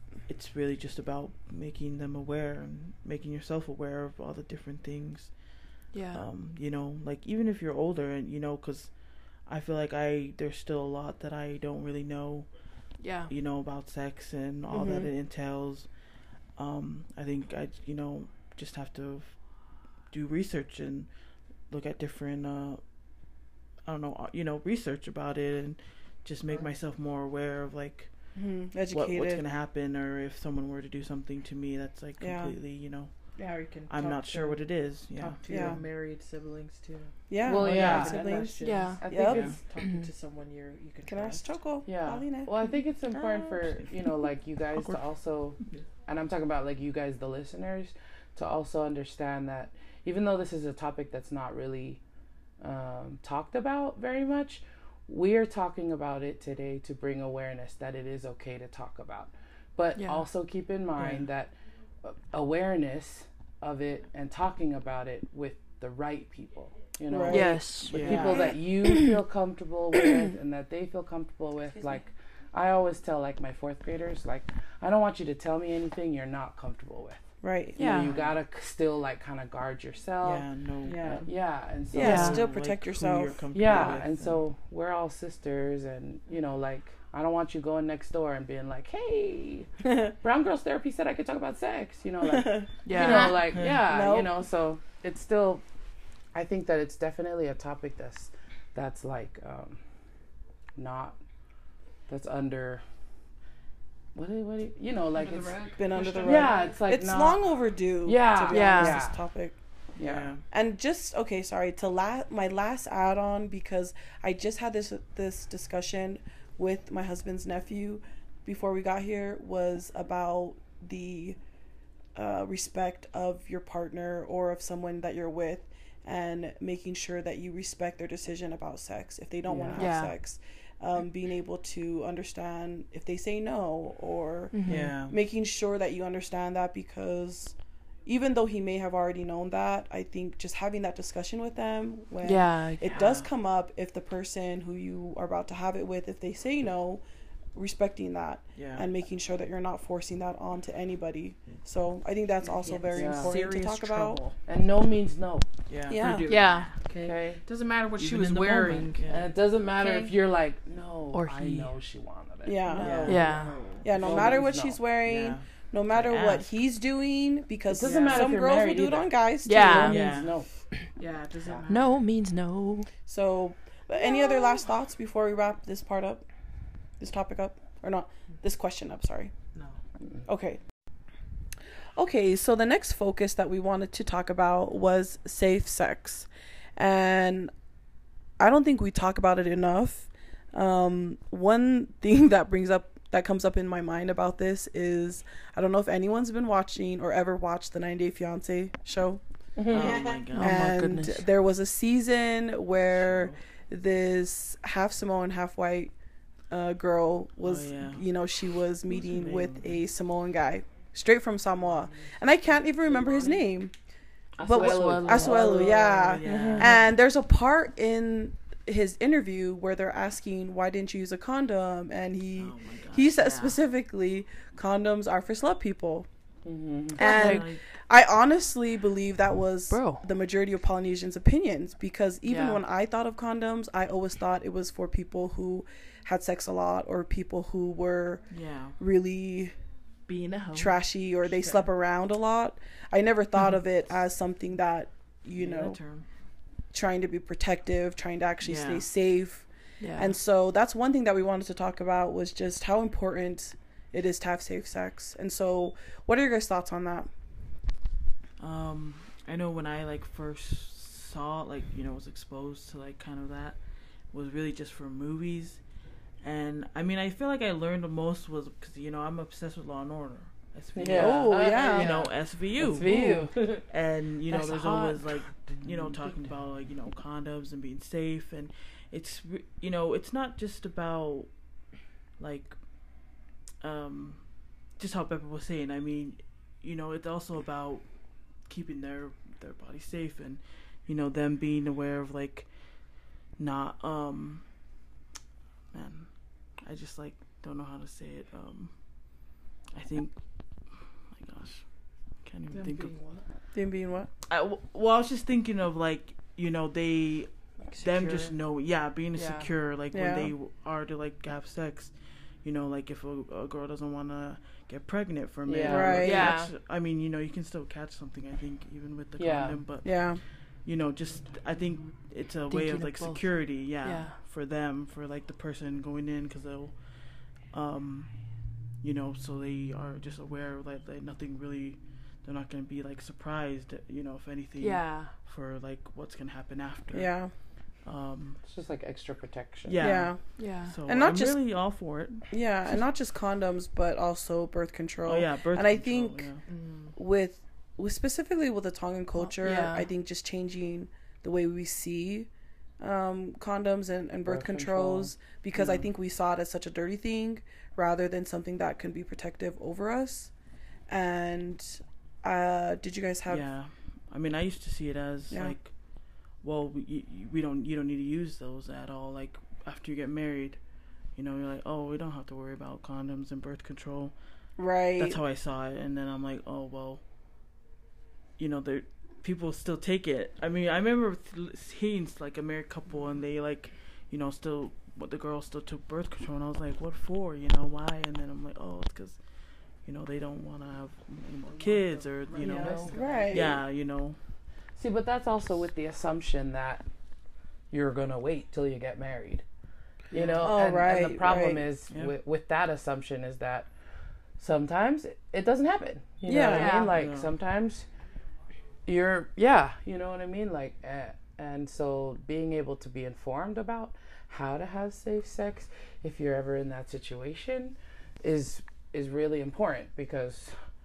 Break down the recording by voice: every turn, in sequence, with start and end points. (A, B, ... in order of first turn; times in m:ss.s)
0:00.3-0:35.8 A
0:05.9-0:06.3 B
0:13.0-0:13.3 B
0:14.7-0:15.1 C
0:28.3-0:29.4 C
0:32.2-0:32.6 C
0:33.4-0:41.6 D
0:35.5-0:35.8 C
0:37.3-0:39.4 C
0:37.4-0:39.6 E
0:37.6-0:38.1 A
0:38.6-0:39.1 B
0:39.2-0:39.6 A
0:39.8-0:40.1 B
0:41.0-0:43.7 C
0:41.9-0:52.0 E
0:52.6-1:22.4 E
1:00.0-1:00.2 B
1:01.0-1:01.2 A
1:07.1-1:09.1 C
1:07.3-1:08.4 B
1:07.8-1:08.4 A
1:17.4-1:17.8 C
1:17.8-1:18.1 B
1:17.9-1:18.4 A
1:20.2-1:21.2 A
1:20.8-1:21.2 D
1:21.9-1:23.4 C
1:22.0-1:22.4 B
1:22.0-1:24.4 A
1:23.5-1:35.6 E
1:32.2-1:34.4 C
1:32.8-1:33.5 B
1:33.5-1:33.8 A
1:36.3-1:39.8 E
1:40.8-1:41.2 E
1:42.1-1:42.8 E
1:44.2-1:49.2 E
1:45.2-1:46.7 D
1:45.8-1:49.6 C
1:48.5-1:49.0 B
1:50.0-1:50.3 E
1:50.0-1:50.4 A
1:50.5-2:01.4 C
2:02.2-2:27.0 C
2:09.5-2:09.9 E
2:09.8-2:10.1 B
2:14.5-2:15.0 B
2:14.7-2:15.2 A
2:22.2-2:23.0 B
2:22.9-2:23.3 A
2:27.5-2:34.2 C
2:28.6-2:28.8 A
2:32.6-2:34.4 D
2:32.9-2:33.4 E
2:34.5-2:35.5 E
2:35.7-2:36.9 A
2:35.9-2:36.3 C
2:36.0-2:39.0 D
2:36.3-2:36.7 B
2:37.0-2:37.4 E
2:38.0-2:39.3 A
2:39.1-2:44.8 E
2:39.8-2:40.1 D
2:41.1-2:41.7 B
2:42.5-2:43.2 C
2:42.8-2:43.9 D
2:42.8-2:44.3 A
2:43.1-2:43.7 B
2:43.8-2:50.0 C
2:45.0-2:46.5 A
2:47.7-2:50.7 E
2:47.8-2:48.3 D
2:49.4-2:50.2 B
2:49.8-2:50.4 A
2:51.0-2:52.0 D
2:51.7-2:52.9 B
2:53.1-2:56.3 C
2:57.0-2:59.3 C
3:00.3-3:00.6 C
3:02.0-3:07.5 C
3:08.4-3:25.9 C
3:19.6-3:20.0 E
3:19.7-3:20.7 A
3:20.3-3:21.3 B
3:22.9-3:23.4 A
3:26.5-3:33.7 C
3:27.4-3:28.2 A
3:28.8-3:29.8 A
3:32.9-3:33.3 A
3:34.4-3:36.8 A
3:34.4-3:46.1 C
3:34.5-3:35.6 B
3:34.6-3:35.6 E
3:36.2-3:36.8 E
3:42.4-3:43.6 A
3:46.4-3:47.3 E
3:47.0-3:59.6 C
3:47.0-3:47.6 A
3:47.0-3:47.5 B
3:49.7-3:50.0 B
3:52.2-3:52.6 B
3:58.3-3:58.8 A
4:00.1-4:01.6 D
4:00.5-4:06.0 C
4:05.4-4:06.1 A
4:06.7-4:17.1 C
4:08.4-4:08.9 A
4:09.8-4:10.2 B
4:18.4-4:41.6 A
4:30.8-4:33.7 E
4:30.9-4:32.1 C
4:32.8-4:33.3 C
4:34.3-4:35.2 E
4:42.2-4:54.5 A
4:55.7-5:03.0 A
5:02.5-5:03.2 D
5:03.5-5:04.1 C
5:04.3-5:38.4 A
5:07.8-5:08.3 B
5:09.2-5:09.5 B
5:09.9-5:10.3 C
5:15.4-5:16.1 E
5:15.6-5:16.4 C
5:16.0-5:16.5 B
5:19.2-5:19.6 E
5:19.8-5:20.2 C
5:22.5-5:24.2 B
5:34.6-5:35.1 B
5:36.9-5:37.3 C
5:38.4-5:40.1 E
5:39.7-5:42.4 A
5:39.8-5:46.3 C
5:40.4-5:40.8 B
5:45.0-5:46.9 A
5:46.5-5:46.9 D
5:47.0-5:52.3 C
5:49.2-5:49.9 B
5:52.8-6:00.3 C
5:54.3-5:55.2 E
5:55.6-5:55.9 A
6:00.9-6:03.5 C
6:03.3-6:14.2 A
6:05.3-6:05.6 C
6:14.6-6:15.2 C
6:15.0-6:17.0 A
6:18.4-6:34.2 A
6:31.5-6:33.6 D
6:32.4-6:32.9 E
6:32.5-6:33.6 C
6:34.8-6:36.8 E
6:37.7-6:39.4 E
6:40.1-6:43.7 E
6:40.1-6:40.5 A
6:40.4-6:41.6 C
6:41.9-6:42.2 A
6:44.4-6:47.9 E
6:46.3-6:46.8 C
6:46.5-6:47.3 A
6:46.6-6:46.9 B
6:48.9-7:00.6 E